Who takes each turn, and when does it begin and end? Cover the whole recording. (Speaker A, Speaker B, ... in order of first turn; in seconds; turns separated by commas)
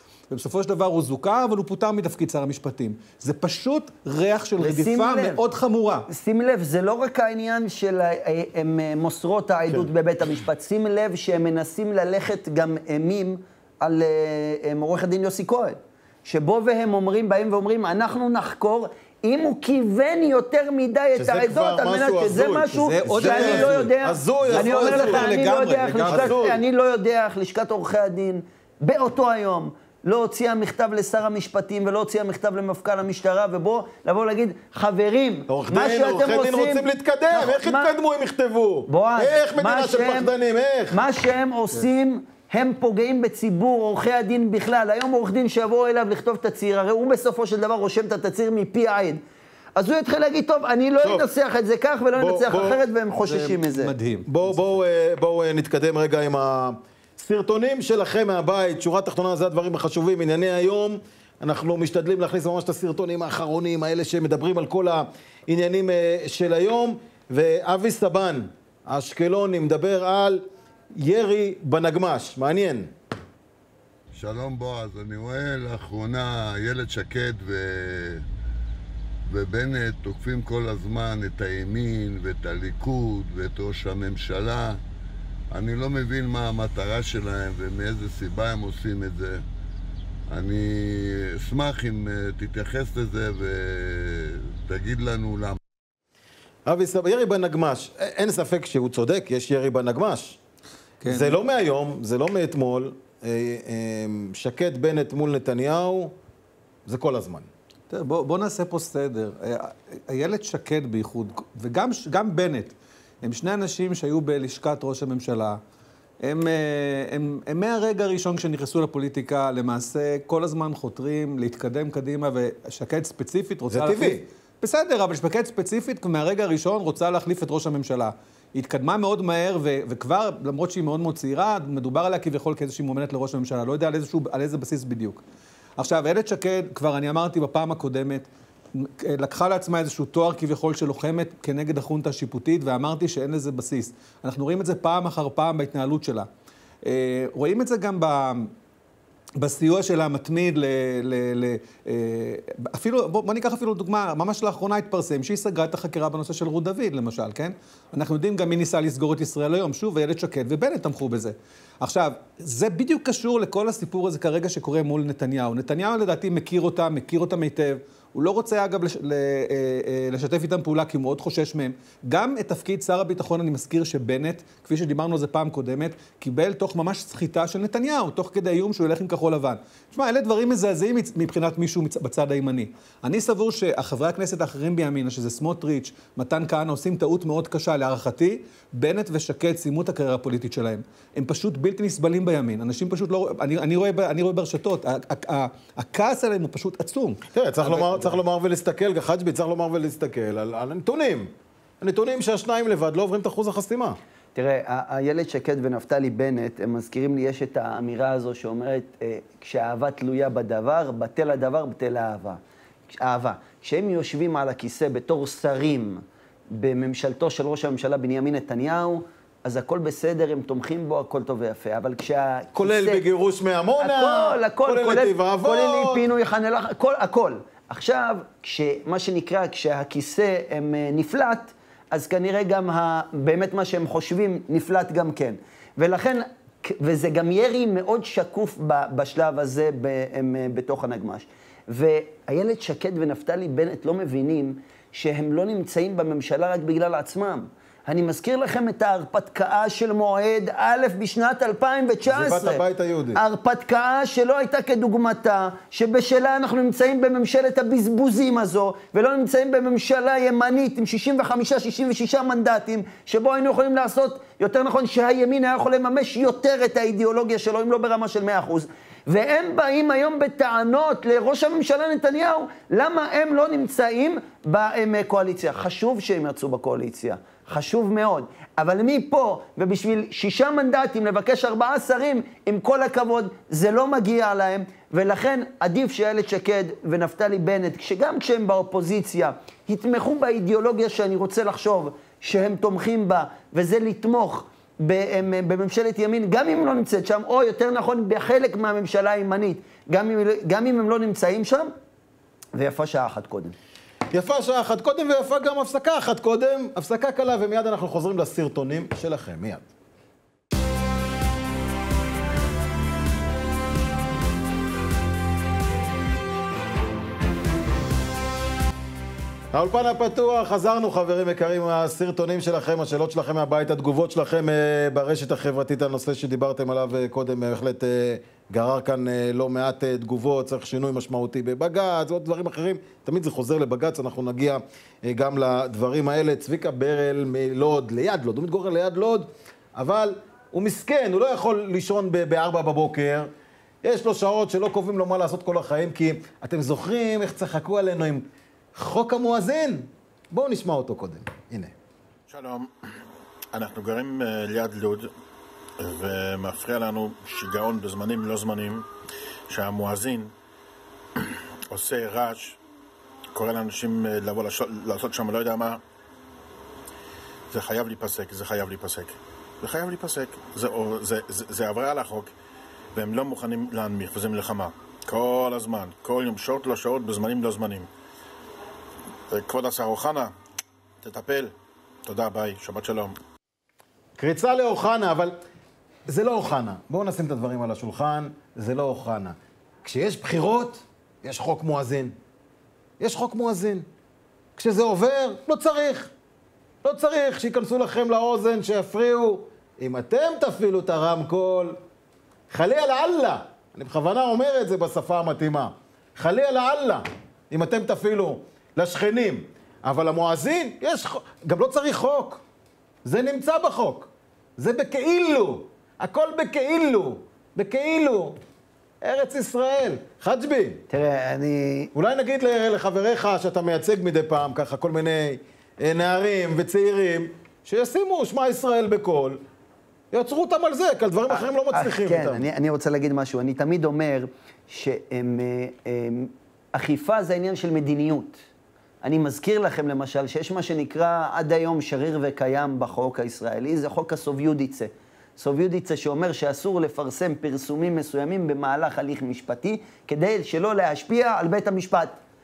Speaker A: 0.3-6.1, Speaker B: 4.6-5.4, Speaker B: 6.1-37.9, Speaker C: 21.1-25.4, Speaker A: 22.7-26.4, Speaker C: 26.1-26.6, Speaker C: 35.5-41.0, Speaker B: 38.9-40.3, Speaker B: 40.9-49.2, Speaker B: 49.8-53.9, Speaker C: 51.0-51.3, Speaker C: 52.1-52.8, Speaker A: 53.2-54.8, Speaker C: 54.3-72.9, Speaker D: 74.1-78.2, Speaker D: 79.3-84.8, Speaker D: 85.5-89.4, Speaker D: 90.3-95.6, Speaker C: 96.7-100.4, Speaker A: 101.0-101.4, Speaker C: 101.0-106.1, Speaker C: 106.8-107.5, Speaker A: 107.9-115.6, Speaker A: 116.2-135.2, Speaker C: 123.7-124.2, Speaker A: 135.8-146.3, Speaker A: 146.8-148.5, Speaker A: 149.4-197.2, Speaker C: 197.3-204.0, Speaker B: 197.7-198.1, Speaker B: 204.3-212.4, Speaker B: 212.9-223.0, Speaker C: 222.6-226.0, Speaker B: 223.8-252.6, Speaker C: 252.1-253.2, Speaker B: 253.1-301.7, Speaker B: 302.5-303.5, Speaker C: 304.1-309.6, Speaker C: 319.5-343.3, Speaker C: 343.8-351.7, Speaker E: 352.3-352.7, Speaker E: 353.5-355.1, Speaker E: 355.8-358.8, Speaker E: 359.5-360.3, Speaker E: 361.2-362.6, Speaker E: 363.3-365.8, Speaker E: 367.5-372.3, Speaker E: 372.9-377.9, Speaker E: 379.3-380.3, Speaker E: 381.0-381.5, Speaker E: 382.1-383.1, Speaker C: 384.2-385.4, Speaker C: 386.1-392.1, Speaker C: 393.0-393.9, Speaker C: 394.6-396.1, Speaker C: 396.8-401.8, Speaker C: 402.5-412.4, Speaker C: 413.0-418.4, Speaker C: 419.0-420.8, Speaker B: 420.9-421.9, Speaker C: 421.9-429.4, Speaker C: 430.1-432.4, Speaker B: 431.3-438.4, Speaker B: 439.0-452.1